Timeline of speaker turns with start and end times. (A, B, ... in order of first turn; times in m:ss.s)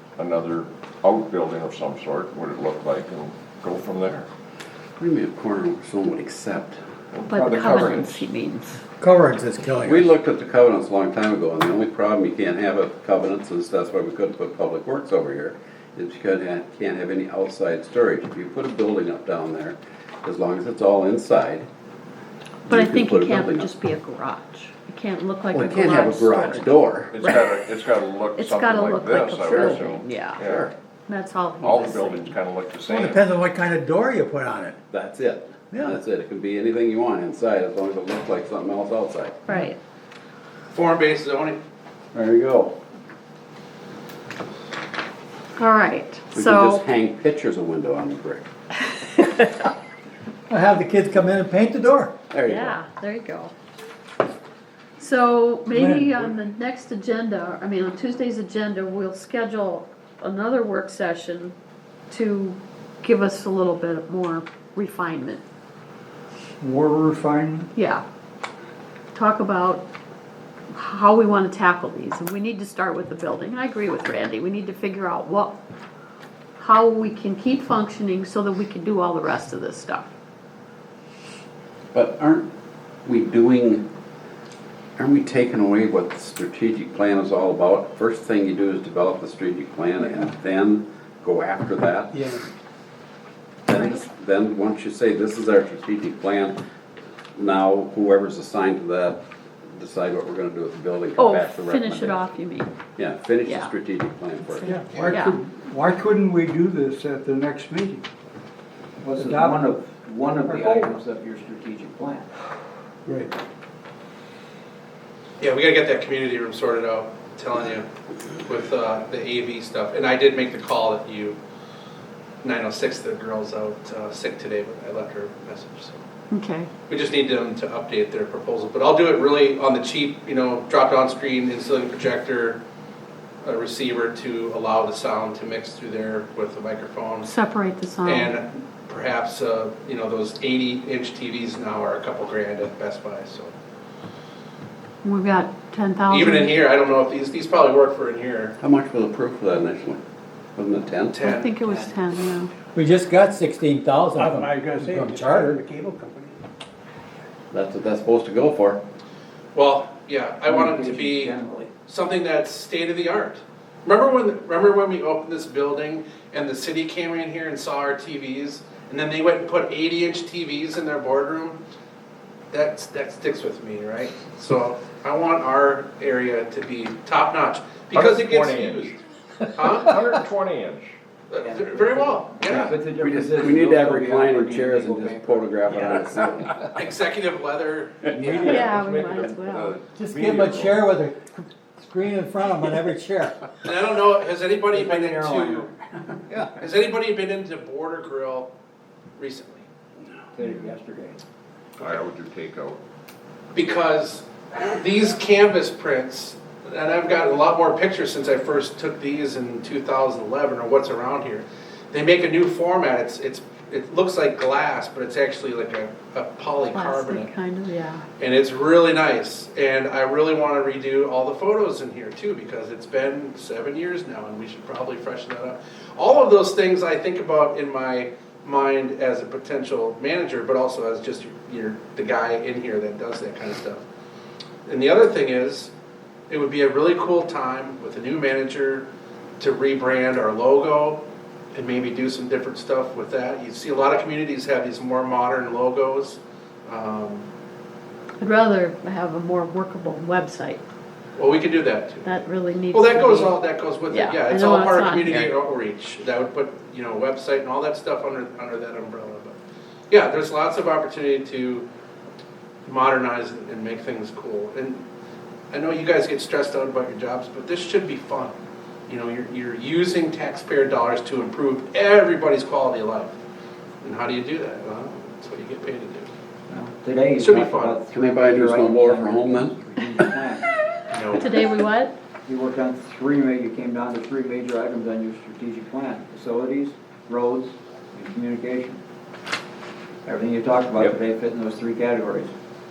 0:00.2-0:04.3 A
0:05.0-0:06.8 B
0:07.1-0:08.2 A
0:07.3-0:08.8 C
0:07.4-0:08.0 D
0:09.0-0:10.1 E
0:09.8-0:21.7 B
0:22.7-0:23.7 B
0:22.7-0:27.6 C
0:25.5-0:27.2 B
0:27.1-0:30.7 A
0:28.4-0:30.4 C
0:30.4-0:30.7 B
0:31.1-0:32.3 C
0:31.6-0:33.3 A
0:32.9-0:34.8 E
0:34.9-0:39.4 B
0:39.5-0:39.8 C
0:40.7-0:41.6 F
0:42.1-0:42.7 B
0:45.6-0:46.8 C
0:46.3-0:48.5 B
0:50.5-0:52.1 E
0:52.3-0:52.8 B
0:52.4-0:53.5 C
0:55.0-1:01.6 C
0:55.7-0:56.3 E
1:02.1-1:05.4 C
1:06.6-1:07.7 G
1:07.8-1:08.0 C
1:09.1-1:09.8 C
1:10.7-1:15.6 C
1:16.6-1:20.1 C
1:21.9-1:22.5 B
1:23.0-1:23.8 B
1:25.0-1:32.4 B
1:33.7-1:36.6 B
1:37.4-1:39.2 B
1:39.8-1:42.3 B
1:41.2-1:42.7 C
1:43.0-1:44.8 B
1:43.4-1:43.7 C
1:44.6-1:48.0 G
1:45.1-1:45.4 C
1:49.0-1:52.3 D
1:49.1-1:49.7 G
1:50.4-1:51.0 G
1:53.1-1:53.3 G
1:55.4-1:57.9 F
1:58.4-2:01.4 F
2:02.4-2:06.0 F
2:06.3-2:06.7 C
2:06.9-2:12.6 F
2:13.4-2:17.3 F
2:17.2-2:18.3 C
2:18.0-2:23.5 F
2:25.0-2:26.6 C
2:26.1-2:28.5 F
2:28.6-2:30.0 B
2:30.6-2:31.2 B
2:31.1-2:31.5 F
2:31.2-2:32.5 C
2:32.8-2:35.6 E
2:34.2-2:36.4 G
2:37.5-2:38.8 B
2:39.5-2:51.6 F
2:40.4-2:41.7 D
2:52.5-2:59.0 F
2:57.9-2:59.0 A
2:59.5-3:00.1 F
2:59.8-3:00.9 A
3:01.3-3:02.8 F
3:01.4-3:06.3 D
3:02.5-3:06.8 B
3:06.6-3:08.6 F
3:08.1-3:08.7 D
3:08.4-3:09.8 C
3:08.5-3:10.9 A
3:09.9-3:13.4 E
3:13.6-3:15.7 F
3:14.7-3:15.7 D
3:16.6-3:18.5 F
3:19.2-3:19.7 F
3:20.3-3:21.2 D
3:21.8-3:22.8 A
3:23.5-3:37.3 F
3:36.7-3:38.1 C
3:38.2-3:53.8 F
3:54.7-3:55.7 F
3:56.3-3:58.9 F
3:59.4-4:01.0 F
4:01.5-4:07.3 F
4:08.2-4:10.6 C
4:11.2-4:12.2 F
4:12.0-4:13.4 C
4:12.7-4:19.4 F
4:13.9-4:15.3 C
4:19.9-4:21.7 F
4:22.6-4:24.8 F
4:25.5-4:28.3 F
4:28.9-4:33.2 F
4:33.8-4:36.1 F
4:36.5-4:40.5 D
4:37.1-4:37.8 F
4:37.9-4:39.5 B
4:40.9-4:41.3 F
4:41.1-4:41.9 C
4:42.2-4:48.8 D
4:50.0-4:52.3 D